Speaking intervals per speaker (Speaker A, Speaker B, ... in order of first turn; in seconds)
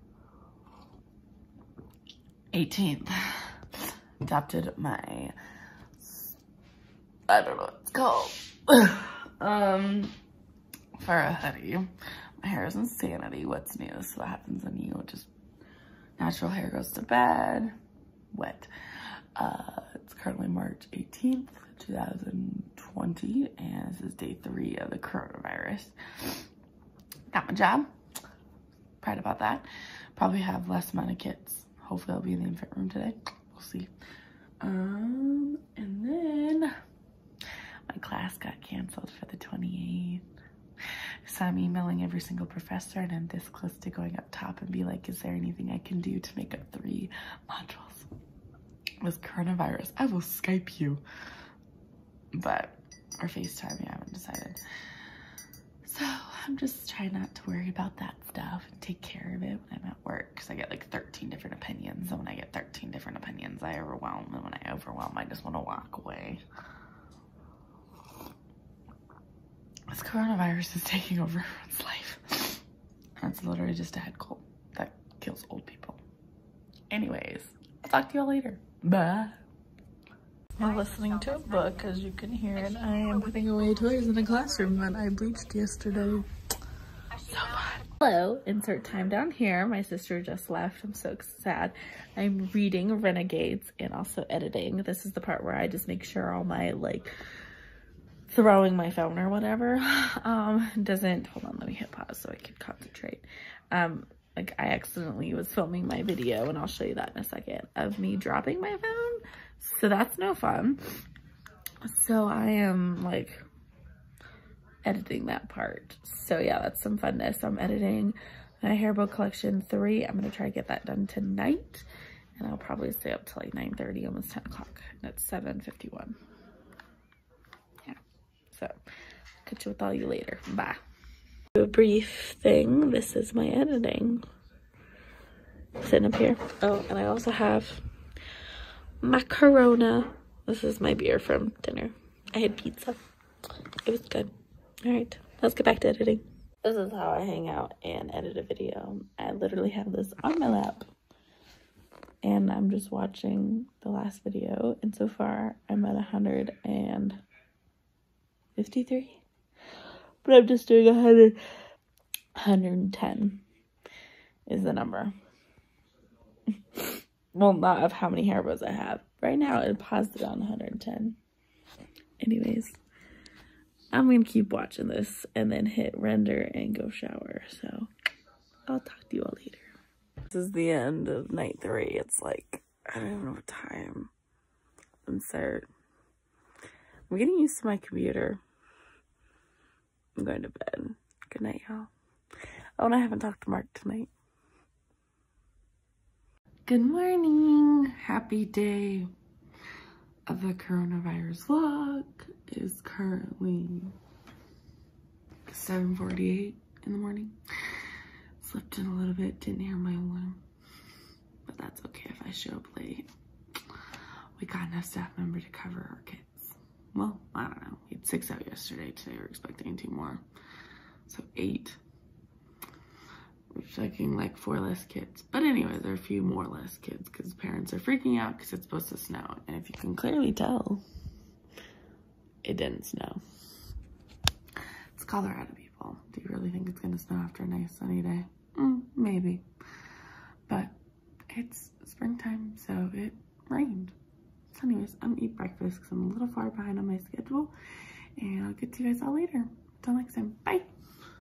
Speaker A: 2.5-3.6, 4.2-5.3, 6.0-6.3, 7.3-10.1, 11.0-15.3, 16.2-17.7, 18.3-26.4, 27.3-27.9, 29.0-33.9, 34.6-36.7, 37.9-40.2, 41.2-48.1, 49.0-51.0, 52.3-54.6, 55.8-66.4, 69.9-72.6, 73.2-76.0, 76.9-79.4, 80.6-86.2, 87.3-97.1, 98.3-110.8, 111.8-113.4, 114.8-121.8, 122.4-126.2, 129.4-130.8, 131.5-134.2, 135.8-137.8, 139.0-143.0, 143.8-144.3, 144.8-150.9, 152.2-157.2, 158.6-159.2, 160.2-161.4, 162.4-163.4, 164.5-165.1, 166.7-171.2, 172.2-172.8, 173.9-177.9, 178.7-179.7, 180.3-184.1, 185.1-185.7, 187.1-188.4, 190.2-191.9, 192.8-194.1, 196.7-199.1, 200.3-203.9, 205.5-207.8, 208.4-210.4, 211.5-213.1, 214.4-220.2, 221.1-221.8, 223.5-230.8, 232.4-233.2, 234.9-239.4, 240.5-240.7, 241.3-243.9, 244.5-247.5, 248.2-250.7